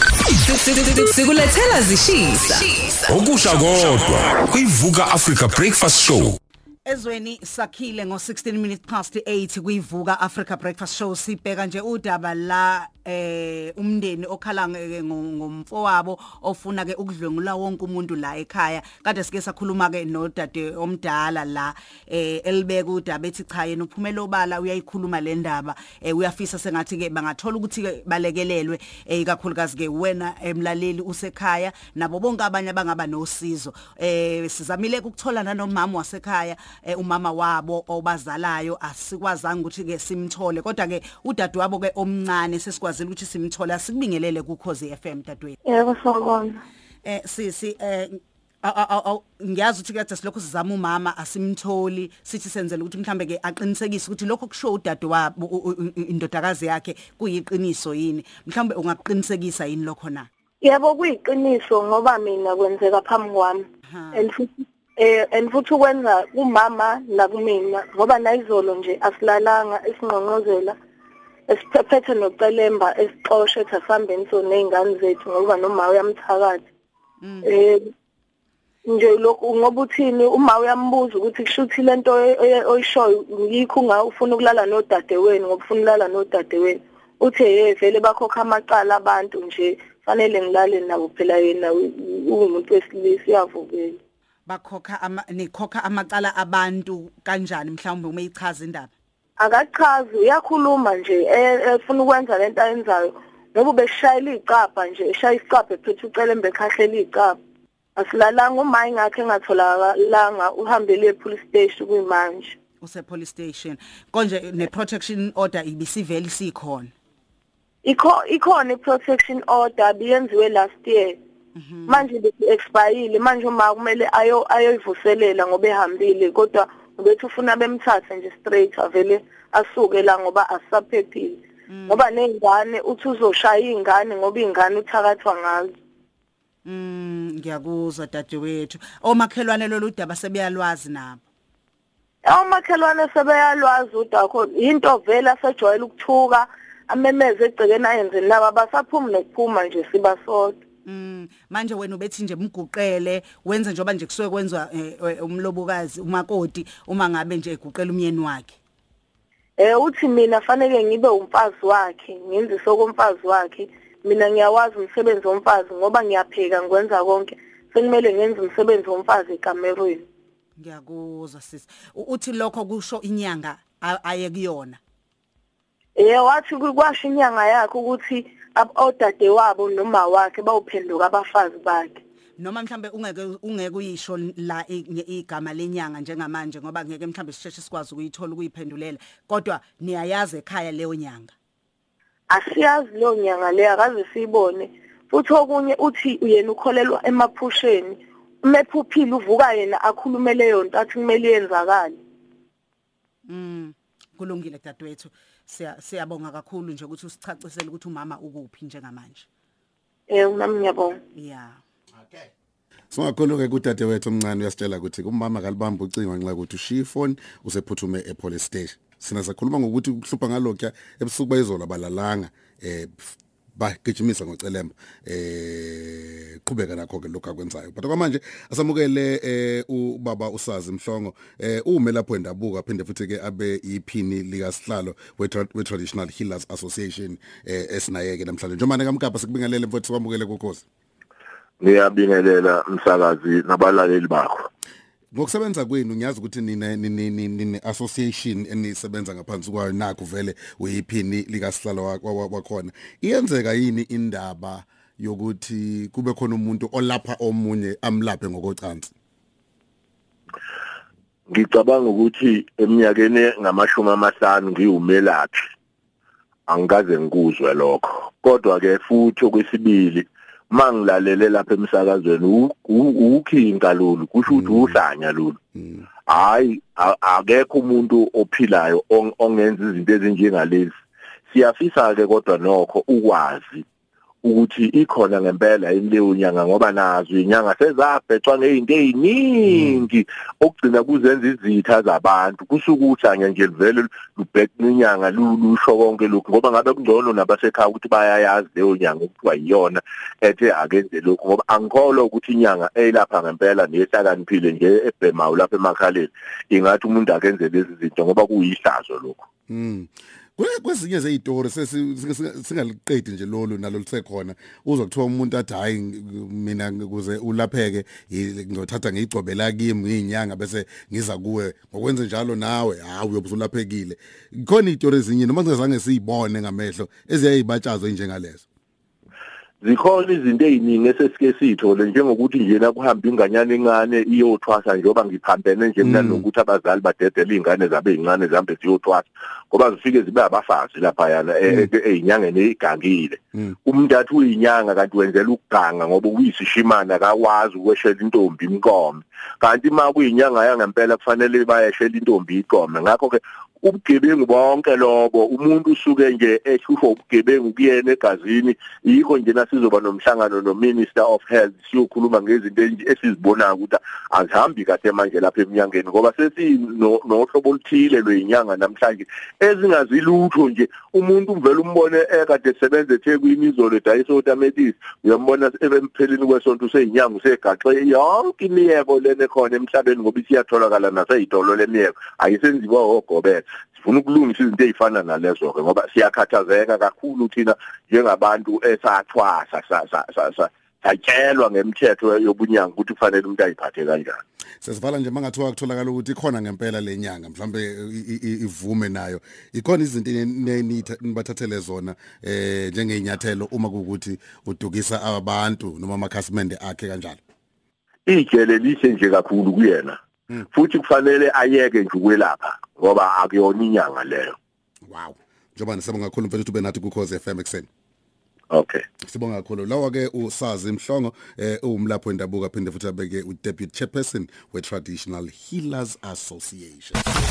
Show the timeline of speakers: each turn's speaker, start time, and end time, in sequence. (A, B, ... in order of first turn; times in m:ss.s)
0:00.3-0:03.5 A
0:03.0-0:06.4 B
0:06.8-0:45.6 C
0:45.6-0:46.6 D
0:47.0-1:00.3 C
1:00.6-1:10.8 D
1:03.9-1:04.3 C
1:11.5-1:16.6 D
1:17.2-1:17.5 C
1:17.4-1:17.8 D
1:18.8-1:34.0 D
1:34.5-1:38.9 C
1:39.4-1:47.4 D
1:48.0-1:52.6 D
1:52.8-1:56.9 C
1:57.8-2:01.2 D
2:01.5-2:02.0 C
2:01.9-2:15.7 D
2:11.7-2:12.0 C
2:16.6-2:21.2 C
2:22.2-2:30.6 D
2:30.8-2:38.6 C
2:39.6-2:50.0 D
2:50.6-2:54.8 C
2:56.0-3:02.0 D
3:02.4-3:11.3 C
3:12.3-3:22.0 D
3:23.2-3:29.3 C
3:30.1-3:31.0 D
3:31.1-3:31.6 C
3:32.9-4:00.6 E
4:01.6-4:04.5 F
4:05.1-4:18.9 E
4:21.3-4:25.4 F
4:26.5-4:35.4 F
4:34.3-4:34.8 E
4:35.6-4:35.8 E
4:36.1-4:40.7 F
4:41.3-4:43.6 F
4:44.2-5:09.2 F
5:09.5-5:28.4 E
5:29.6-6:34.2 F
5:35.8-5:36.2 E
6:34.6-6:47.2 E
6:48.1-6:50.0 F
6:50.5-6:54.3 F
6:54.9-6:57.7 E
6:58.5-6:58.8 F
6:59.0-7:07.0 E